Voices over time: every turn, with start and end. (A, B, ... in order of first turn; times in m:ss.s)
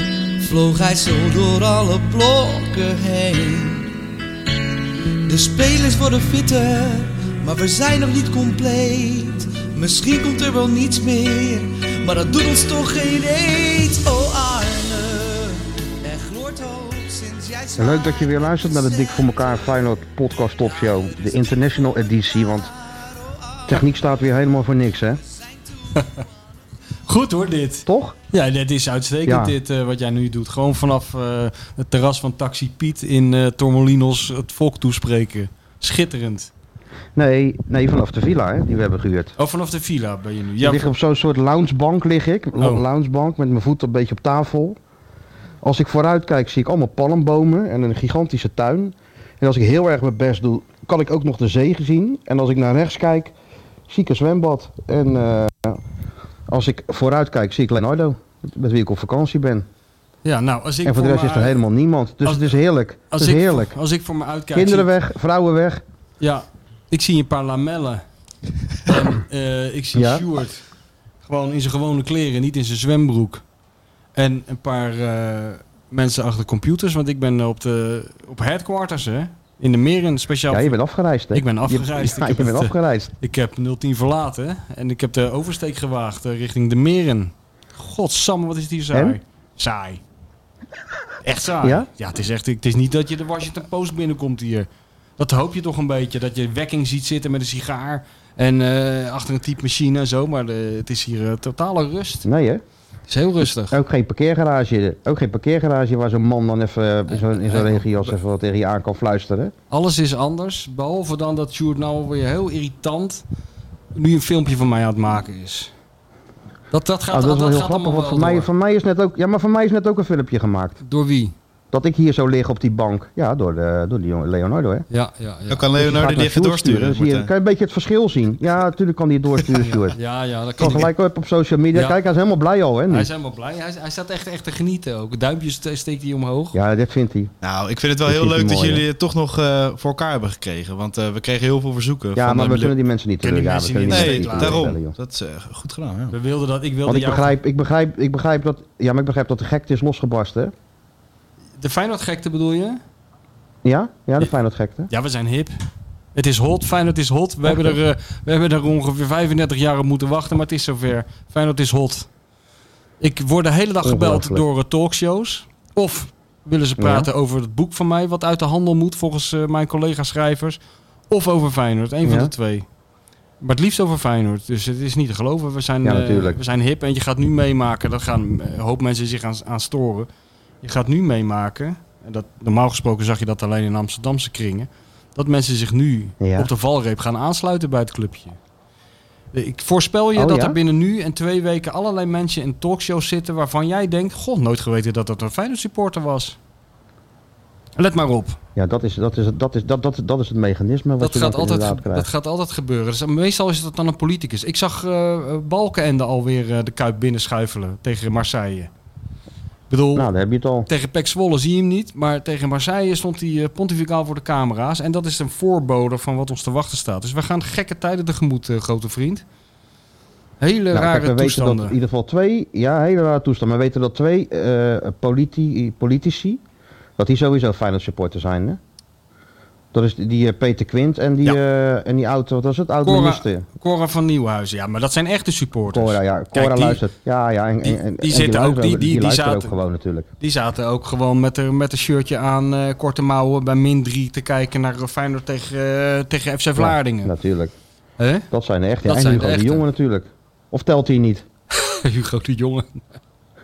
0:00.4-0:03.9 A
0:05.2-0:19.8 A
0:17.8-0:22.7 B
0:20.6-0:23.8 A
0:23.7-0:25.2 B
0:25.3-0:26.3 A
0:26.0-0:26.2 C
0:27.0-0:36.5 C
0:27.8-0:28.2 B
0:29.2-0:29.5 B
0:37.1-0:39.3 B
0:39.4-0:40.9 C
0:40.6-0:44.8 B
0:45.6-0:53.3 B
0:53.9-0:55.8 B
0:56.5-0:59.7 B
1:00.2-1:01.6 C
1:00.8-1:03.8 B
1:02.2-1:02.6 C
1:03.1-1:04.9 C
1:04.5-1:05.8 B
1:06.2-1:08.0 C
1:08.8-1:10.6 C
1:09.9-1:10.2 B
1:11.2-1:13.4 C
1:14.2-1:20.8 C
1:20.5-1:23.1 B
1:21.3-1:30.0 C
1:31.2-1:42.3 C
1:31.6-1:31.9 B
1:42.2-1:42.6 B
1:43.1-1:43.8 C
1:43.7-1:49.5 B
1:47.1-1:48.0 C
1:49.7-1:53.2 C
1:53.9-1:55.7 C
1:56.7-1:58.5 C
1:57.1-2:00.8 B
2:00.8-2:01.3 C
2:01.7-2:04.8 B
2:04.9-2:05.8 C
2:05.5-2:07.3 D
2:05.8-2:10.0 B
2:09.5-2:10.9 C
2:10.6-2:13.1 B
2:12.9-2:16.6 C
2:16.5-2:17.3 B
2:17.4-2:22.7 D
2:18.0-2:18.8 B
2:22.1-2:24.9 B
2:23.2-2:24.7 C
2:23.9-2:26.1 D
2:26.1-2:27.4 C
2:26.8-2:30.5 B
2:31.6-2:32.8 C
2:33.6-2:34.9 B
2:34.9-2:35.5 C
2:36.1-2:42.1 C
2:37.4-2:37.8 B
2:43.0-2:50.6 C
2:43.8-2:44.4 B
2:46.8-2:47.1 B
2:51.1-2:52.6 C
2:52.0-2:52.3 B
2:53.4-3:00.1 C
2:55.8-2:56.4 B
3:00.6-3:08.4 C
3:06.2-3:06.5 B
3:09.3-3:16.4 C
3:10.1-3:10.6 B
3:17.8-3:18.4 C
3:18.6-3:22.1 B
3:21.0-3:28.7 C
3:29.7-3:30.1 C
3:29.9-3:30.7 B
3:30.7-3:39.2 C
3:40.4-3:41.8 C
3:40.7-3:46.4 B
3:47.0-3:48.6 B
3:49.7-3:53.4 B
3:52.8-3:56.8 C
3:55.7-4:00.1 B
3:57.6-3:59.5 C
4:00.2-4:07.1 C
4:06.6-4:07.5 B
4:08.0-4:08.3 C
4:08.3-4:11.2 B
4:08.8-4:09.6 C
4:11.5-4:12.8 C